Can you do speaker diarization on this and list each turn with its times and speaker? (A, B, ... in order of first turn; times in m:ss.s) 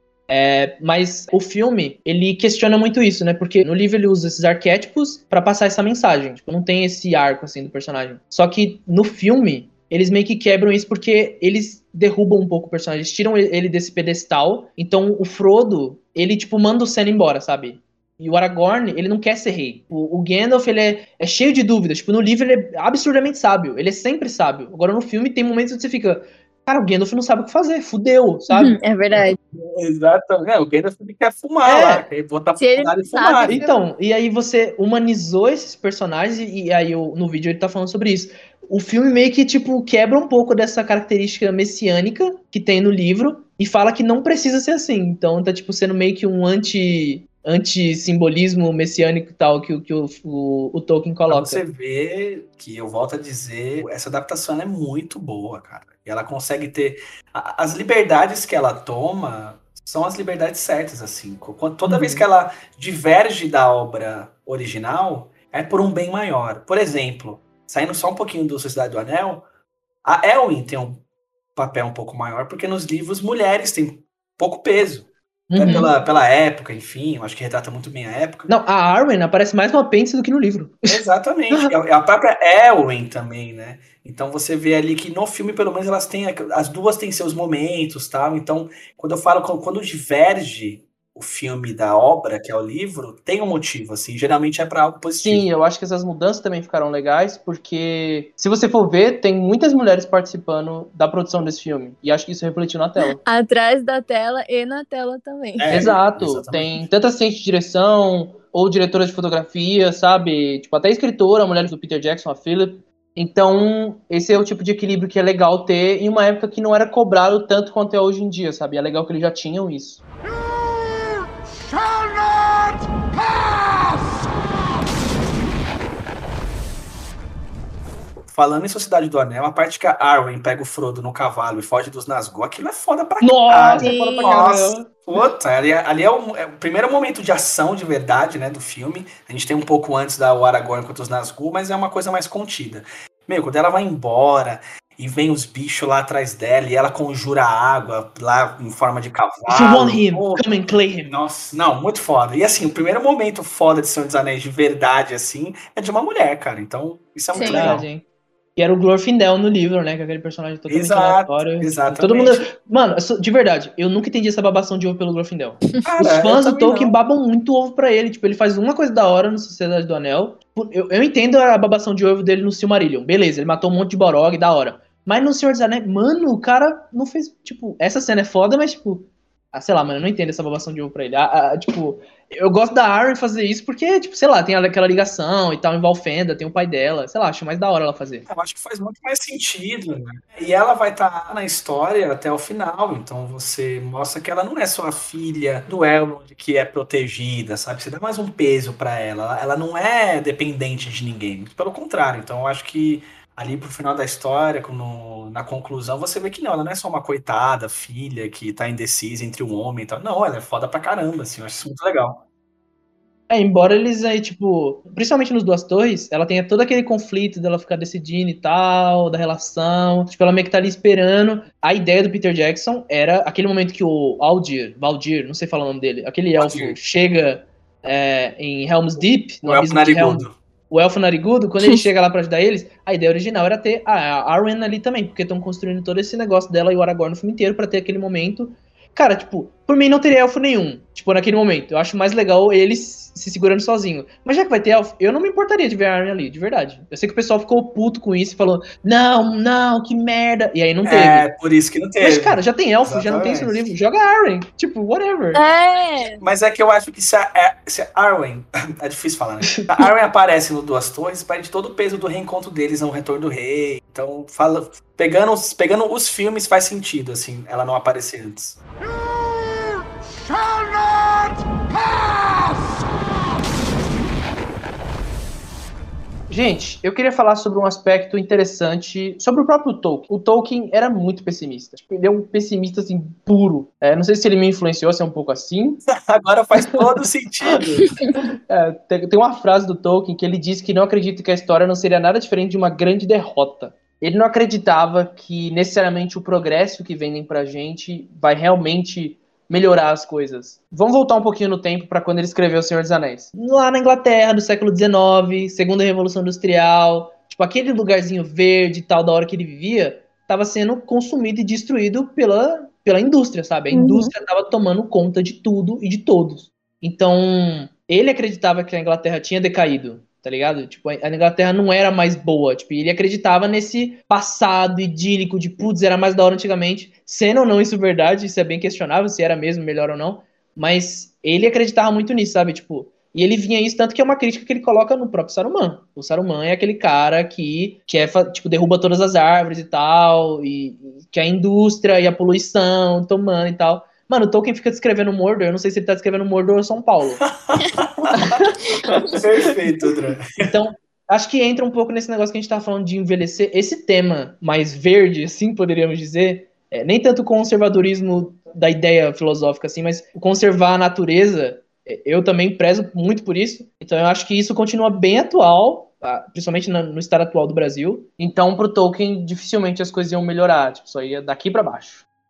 0:00.3-0:28.8 A
0:28.5-0:29.4 B
0:29.5-0:33.7 C
0:31.6-0:32.1 A
0:32.6-0:33.8 B
0:33.4-0:51.6 A
0:51.3-1:09.4 C
1:01.8-1:02.3 A
1:10.0-1:11.0 C
1:11.6-1:18.5 C
1:15.5-1:15.9 A
1:18.5-1:21.0 A
1:20.9-1:35.5 C
1:35.2-1:43.2 A
1:43.0-1:45.9 B
1:45.6-1:46.9 C
1:45.7-2:00.0 A
2:08.3-2:30.5 C
2:13.2-2:15.3 A
2:13.8-2:14.4 B
2:29.5-2:31.1 A
2:31.1-2:37.9 C
2:37.3-2:37.8 B
2:37.4-2:38.0 A
2:38.6-3:08.3 A
2:40.7-2:42.5 C
2:45.8-2:47.0 C
3:08.3-3:32.2 C
3:33.3-4:11.3 A
3:46.4-3:46.8 C
3:49.4-3:50.4 C
4:10.8-4:13.7 C
4:12.0-4:15.4 A
4:15.3-4:16.2 B
4:16.2-4:28.6 C
4:36.3-4:45.8 A
4:46.0-4:47.9 C
4:48.5-5:47.2 A
5:13.7-5:14.1 B
5:47.4-5:48.5 C
5:48.2-5:49.2 A
5:48.9-5:49.1 B
5:49.1-5:50.5 C
5:50.4-6:12.0 A